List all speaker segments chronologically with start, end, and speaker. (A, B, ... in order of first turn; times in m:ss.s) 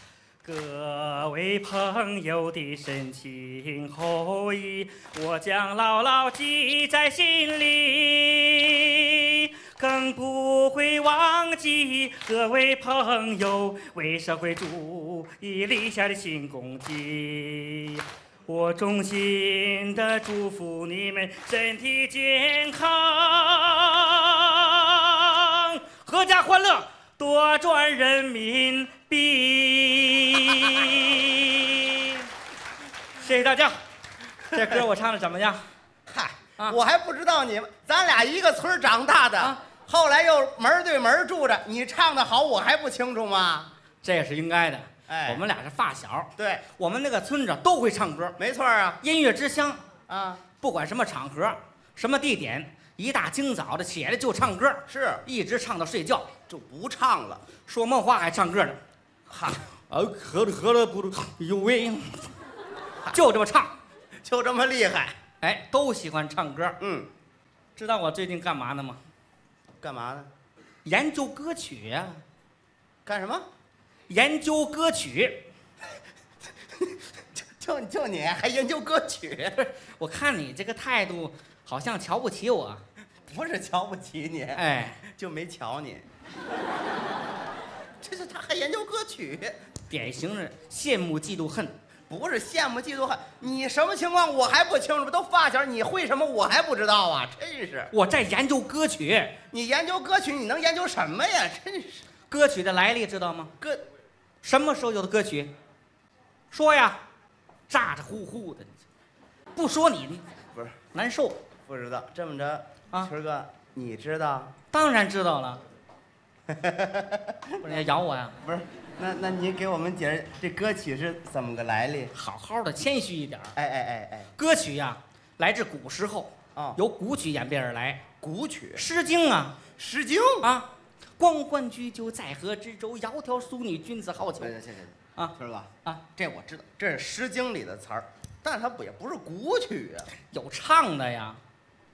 0:00.4-0:32.3 A
0:33.2-0:33.8 A
0:34.5-0:35.6 A
0:34.5-0:34.8 B
0:36.1-0:43.7 B
0:44.0-0:48.4 A
0:45.1-0:45.4 B
0:46.4-0:46.6 B
0:48.4-0:49.0 B
0:49.0-0:49.8 A
0:50.1-0:50.4 B
0:50.6-0:56.3 A
0:54.9-0:55.2 B
0:56.5-0:57.4 B
0:57.6-0:58.8 A
0:59.3-0:59.6 B
0:59.9-1:02.3 A
1:03.1-1:03.7 A
1:04.2-1:05.1 B
1:05.4-1:06.8 A
1:06.8-1:07.1 B
1:07.8-1:09.0 A
1:09.8-1:10.3 B
1:10.8-1:12.2 A
1:13.0-1:13.4 B
1:14.1-1:15.4 A
1:17.3-1:19.6 B
1:19.6-1:22.8 A
1:23.3-1:26.1 B
1:24.5-1:25.0 A
1:28.0-1:29.6 B
1:29.9-1:31.7 A
1:32.1-1:37.9 B
1:37.9-1:39.3 A
1:39.5-1:42.0 B
1:42.3-1:43.5 A
1:44.4-1:45.5 A
1:46.5-1:47.0 A
1:47.7-1:48.8 A
1:49.6-1:50.2 A
1:50.9-1:51.4 A
1:51.7-1:54.5 B
1:54.7-1:55.6 A
1:56.5-1:57.9 B
1:57.6-1:58.4 A
1:58.4-2:02.1 B
2:02.1-2:03.5 A
2:03.6-2:04.3 B
2:04.4-2:08.0 A
2:08.2-2:08.8 B
2:08.8-2:09.6 A
2:09.8-2:10.5 B
2:10.4-2:10.7 A
2:11.2-2:14.5 A
2:14.4-2:20.1 B
2:20.3-2:21.4 A